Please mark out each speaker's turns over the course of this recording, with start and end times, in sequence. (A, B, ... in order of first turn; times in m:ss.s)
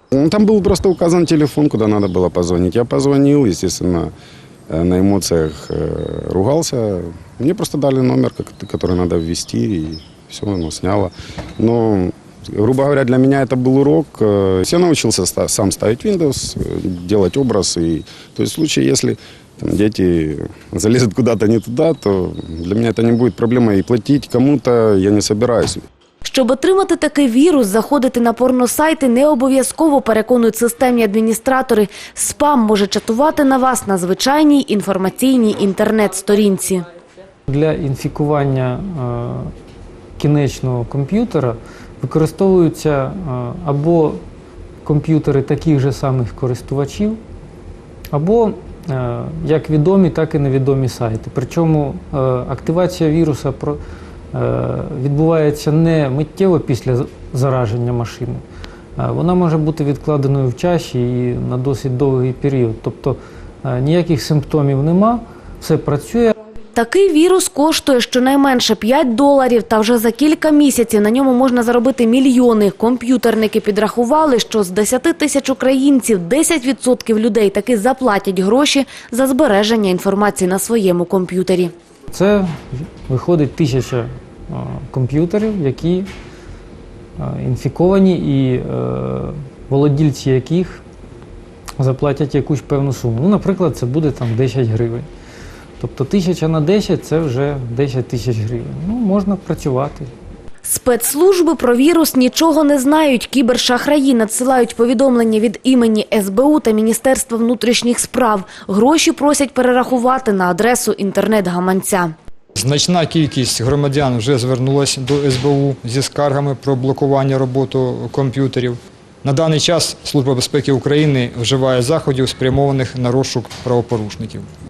0:00.1-0:04.1 A
0:04.7-0:25.8 A
0:26.2-0:36.8 B
0:37.5-0:39.5 C
0:40.2-0:44.2 C
0:44.8-0:47.2 C
0:48.1-0:53.8 C
0:54.3-0:58.4 C
0:59.0-1:06.4 C
1:06.8-1:21.7 B
1:22.1-1:26.1 C
1:27.2-1:30.8 C
1:31.8-1:35.1 C
1:35.8-1:40.1 C
1:40.6-1:52.1 B
1:52.6-2:04.5 D